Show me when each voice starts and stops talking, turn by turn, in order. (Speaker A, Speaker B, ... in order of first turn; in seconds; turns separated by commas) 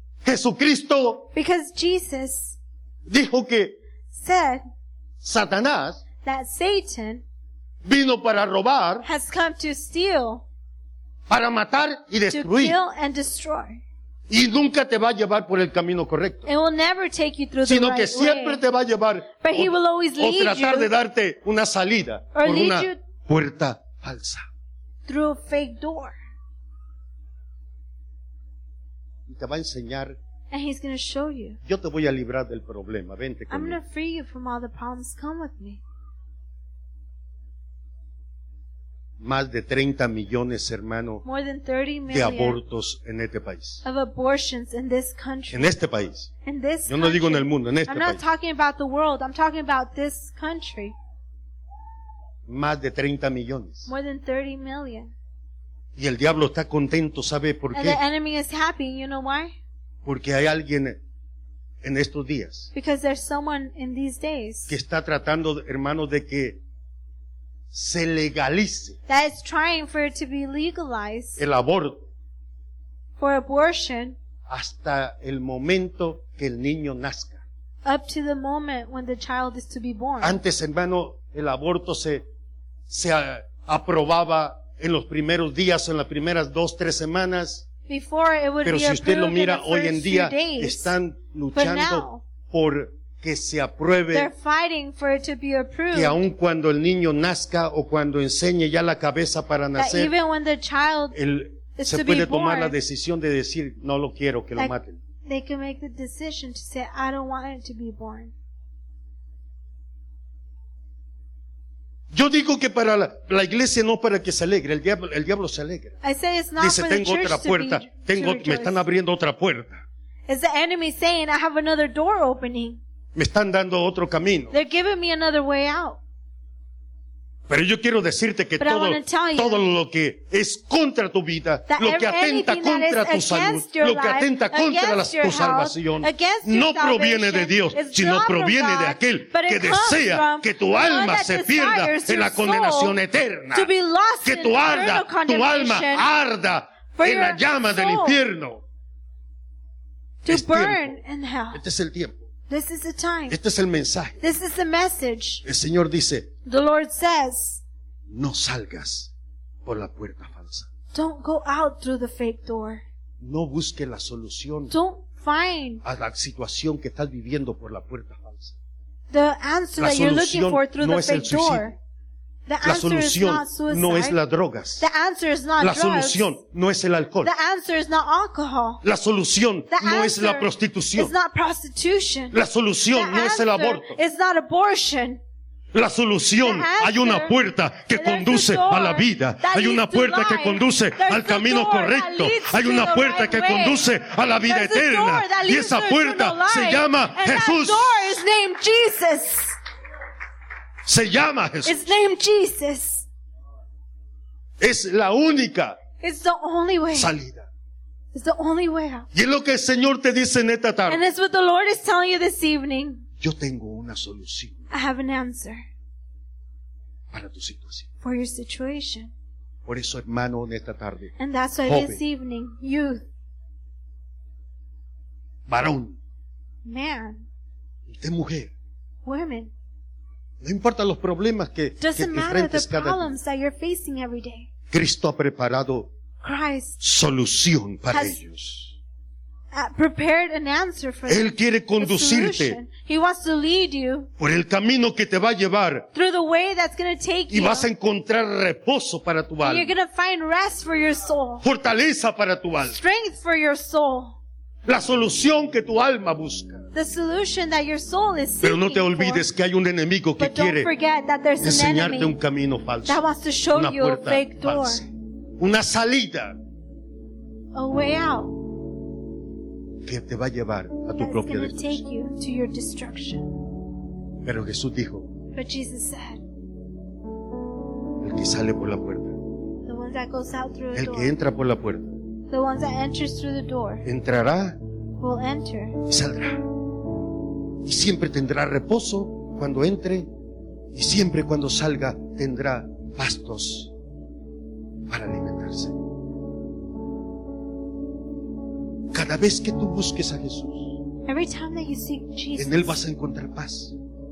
Speaker A: 0.2-1.3, Speaker B: 1.3-2.6, Speaker A: 3.1-3.7, Speaker B: 4.1-4.6, Speaker A: 5.2-6.0, Speaker B: 6.2-7.2, Speaker A: 7.8-9.1, Speaker B: 9.0-10.4, Speaker A: 11.3-12.8, Speaker B: 12.3-13.8, Speaker A: 14.3-16.5, Speaker B: 16.4-18.6, Speaker A: 17.6-24.4, Speaker B: 19.4-20.9, Speaker B: 22.3-23.0, Speaker B: 25.1-26.1, Speaker A: 29.3-30.2, Speaker B: 30.5-31.6, Speaker A: 31.6-33.8, Speaker B: 33.5-35.8, Speaker A: 39.2-41.2, Speaker B: 41.2-42.6, Speaker A: 42.1-43.8, Speaker B: 43.8-45.7, Speaker A: 45.5-46.3, Speaker B: 46.4-50.9, Speaker A: 46.9-48.2, Speaker A: 52.5-53.9, Speaker B: 53.9-55.1, Speaker A: 56.0-58.0, Speaker B: 57.7-59.5, Speaker A: 60.0-61.0, Speaker A: 61.8-62.7, Speaker B: 62.7-64.7, Speaker A: 64.7-66.6, Speaker A: 67.7-69.0, Speaker B: 69.1-71.4, Speaker A: 71.4-72.0, Speaker B: 73.2-74.2, Speaker A: 74.5-77.4, Speaker B: 77.8-80.4, Speaker A: 80.2-82.2, Speaker A: 82.9-87.6, Speaker B: 87.9-90.9, Speaker A: 88.6-94.3, Speaker B: 91.5-92.2, Speaker B: 94.1-96.2, Speaker A: 95.9-100.1, Speaker B: 99.8-101.2, Speaker A: 101.1-105.0, Speaker B: 101.8-102.8, Speaker B: 105.2-108.3, Speaker A: 112.1-116.0, Speaker B: 116.0-118.8, Speaker A: 116.6-119.8, Speaker B: 120.3-122.8, Speaker A: 123.1-124.5, Speaker B: 124.5-126.0, Speaker A: 127.5-143.7, Speaker B: 128.6-129.6, Speaker B: 131.7-142.9, Speaker B: 143.5-146.1, Speaker A: 144.2-148.6, Speaker B: 146.9-148.2, Speaker B: 150.2-151.6, Speaker A: 150.3-150.9, Speaker A: 151.5-152.2, Speaker B: 152.5-153.4, Speaker A: 153.3-154.2, Speaker B: 154.2-155.4, Speaker A: 155.4-156.3, Speaker B: 156.4-157.6, Speaker A: 158.1-159.1, Speaker A: 159.6-160.7, Speaker B: 160.9-162.8, Speaker A: 163.2-164.7, Speaker B: 164.7-165.8, Speaker A: 165.8-168.5, Speaker B: 169.1-171.7, Speaker A: 169.8-171.7, Speaker B: 172.5-174.2, Speaker A: 172.6-174.8, Speaker B: 174.8-176.3, Speaker A: 175.6-177.3, Speaker B: 177.2-178.8, Speaker A: 178.8-181.1, Speaker B: 179.7-182.3, Speaker A: 182.3-184.0, Speaker B: 182.9-185.2, Speaker A: 185.7-198.1, Speaker B: 186.4-187.3, Speaker B: 187.9-193.9, Speaker B: 194.4-199.5, Speaker A: 200.8-201.9, Speaker B: 201.6-203.1, Speaker A: 204.6-205.8, Speaker B: 206.0-207.1, Speaker A: 206.9-207.5, Speaker B: 208.1-209.1, Speaker A: 209.1-211.0, Speaker B: 210.9-213.0, Speaker A: 213.2-214.6, Speaker B: 214.7-215.6, Speaker A: 217.1-217.9, Speaker B: 218.0-219.1, Speaker A: 219.7-221.1, Speaker B: 221.2-223.0, Speaker A: 221.7-222.0, Speaker A: 225.5-225.9, Speaker B: 226.6-227.2, Speaker A: 227.9-228.5, Speaker B: 229.0-229.5, Speaker A: 230.4-233.1, Speaker B: 231.8-234.5, Speaker A: 234.7-235.9, Speaker B: 236.2-236.8, Speaker A: 236.8-238.7, Speaker B: 237.9-238.2, Speaker B: 239.5-244.1, Speaker A: 241.1-242.6, Speaker A: 244.2-245.9, Speaker B: 245.9-247.7, Speaker A: 247.3-249.7, Speaker B: 249.4-251.4, Speaker A: 251.4-252.8, Speaker B: 252.7-254.2, Speaker A: 254.7-256.6, Speaker B: 256.7-259.2, Speaker A: 258.4-260.7, Speaker B: 260.2-262.1, Speaker A: 261.4-266.4, Speaker B: 262.9-264.8, Speaker B: 267.5-268.4, Speaker A: 269.8-271.8, Speaker B: 270.9-273.3, Speaker A: 274.2-275.1, Speaker B: 275.3-276.2, Speaker A: 278.0-279.2, Speaker B: 279.6-281.1, Speaker A: 280.7-281.9, Speaker B: 282.3-283.8, Speaker A: 283.8-284.6, Speaker B: 285.0-285.8, Speaker A: 285.9-286.4, Speaker A: 287.6-290.1, Speaker A: 290.7-293.7, Speaker A: 294.9-295.7, Speaker A: 298.9-300.8, Speaker B: 301.1-302.8, Speaker A: 302.4-303.7